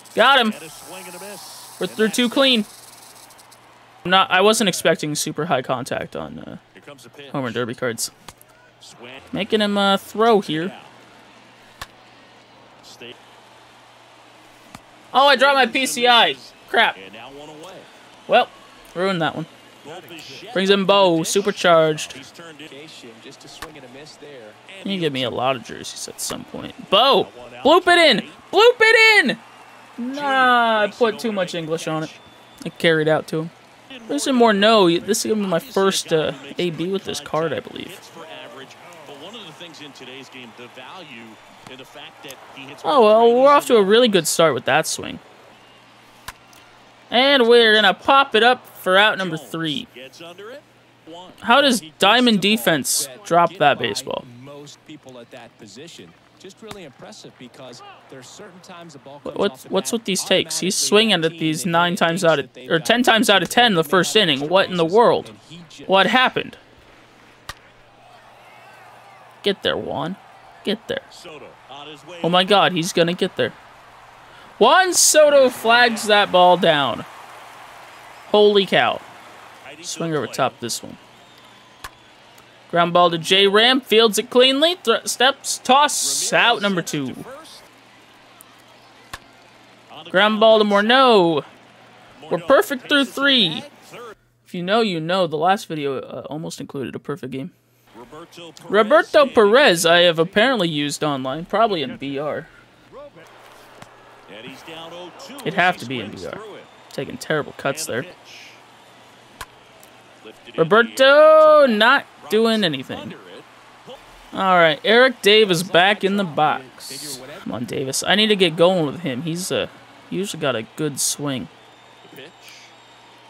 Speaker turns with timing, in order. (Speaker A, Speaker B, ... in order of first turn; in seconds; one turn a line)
Speaker A: 0.1-0.6
Speaker B: 0.4-2.6
Speaker A: 1.8-2.7
Speaker A: 4.0-6.6
Speaker B: 6.7-7.6
Speaker A: 7.3-8.1
Speaker B: 8.8-9.4
Speaker A: 9.3-10.7
Speaker B: 10.3-10.9
Speaker B: 12.8-13.1
Speaker A: 15.1-17.0
Speaker B: 15.1-17.9
Speaker A: 18.3-19.5
Speaker B: 19.8-22.8
Speaker C: 19.8-20.5
Speaker A: 20.5-22.2
Speaker C: 22.7-24.6
Speaker B: 24.7-25.4
Speaker A: 24.8-29.4
Speaker B: 27.0-28.4
Speaker A: 30.0-32.1
Speaker B: 30.1-32.2
Speaker A: 32.6-33.5
Speaker B: 33.9-44.2
Speaker A: 34.1-38.0
Speaker A: 42.8-45.2
Speaker A: 47.1-49.9
Speaker B: 49.1-51.5
Speaker A: 51.4-54.2
Speaker C: 51.6-66.2
Speaker A: 59.2-65.3
Speaker A: 65.8-66.6
Speaker A: 69.4-71.0
Speaker B: 71.1-72.7
Speaker A: 72.2-73.5
Speaker A: 74.6-77.1
Speaker B: 75.5-76.1
Speaker A: 78.3-79.0
Speaker B: 79.6-80.6
Speaker A: 79.8-81.0
Speaker A: 82.7-87.3
Speaker B: 86.0-87.7
Speaker B: 89.9-91.3
Speaker A: 90.1-91.5
Speaker B: 92.2-94.1
Speaker A: 92.3-93.7
Speaker A: 94.4-97.5
Speaker B: 97.9-100.3
Speaker A: 98.7-102.5
Speaker B: 104.3-106.7
Speaker A: 105.4-108.0
Speaker B: 107.7-108.6
Speaker B: 110.2-114.0
Speaker A: 110.6-113.1
Speaker A: 114.3-121.5
Speaker C: 115.4-117.6
Speaker B: 122.0-122.7